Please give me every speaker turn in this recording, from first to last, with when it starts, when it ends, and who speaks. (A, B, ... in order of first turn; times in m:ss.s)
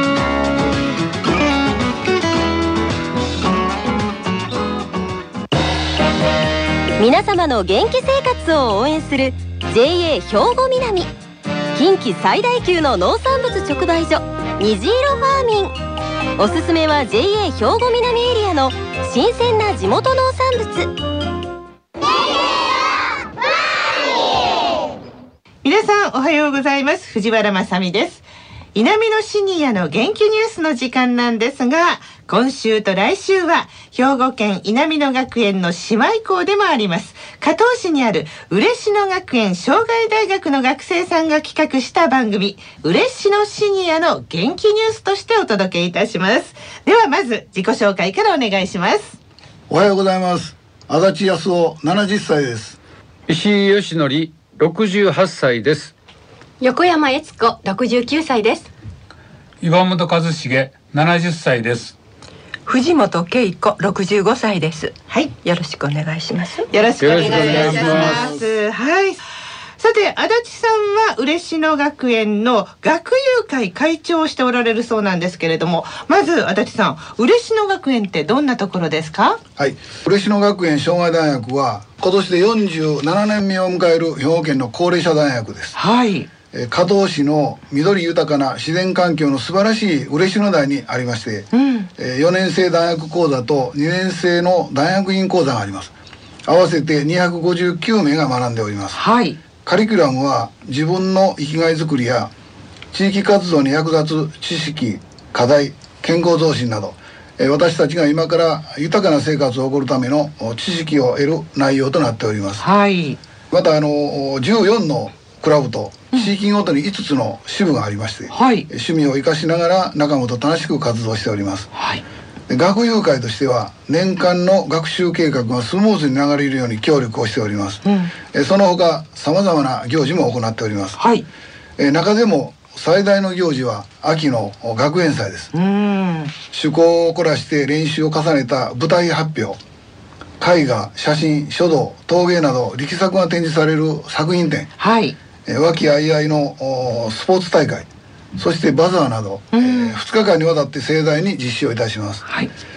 0:07.0-0:11.1 A
0:11.7-0:15.7 A
0:16.4-0:20.9 A
0:25.6-0:49.2 B
0:49.7-0:52.8 C
0:53.3-0:55.9 D
0:56.6-0:58.7 E
0:59.6-1:02.0 F
1:02.6-1:06.7 G
1:06.7-1:09.2 B
1:07.0-1:08.2 D
1:07.2-1:07.6 E
1:07.6-1:08.4 C
1:09.8-1:19.4 B
1:19.6-1:25.8 C
1:25.7-1:26.3 B
1:26.5-1:35.9 C
1:31.5-1:31.9 B
1:36.4-1:39.0 C
1:38.9-1:39.4 B
1:39.6-1:42.3 C
1:42.9-1:52.6 C
1:52.6-1:53.2 B
1:53.5-2:01.7 C
1:58.3-1:58.7 B
2:01.7-2:02.0 B
2:02.5-2:11.0 C
2:07.8-2:08.1 B
2:11.0-2:11.2 B
2:11.8-2:15.5 C
2:15.5-2:16.4 B
2:16.5-2:19.6 C
2:20.4-2:24.7 C
2:24.8-2:25.2 B
2:25.4-2:32.2 C
2:29.5-2:30.0 B
2:32.2-2:32.5 B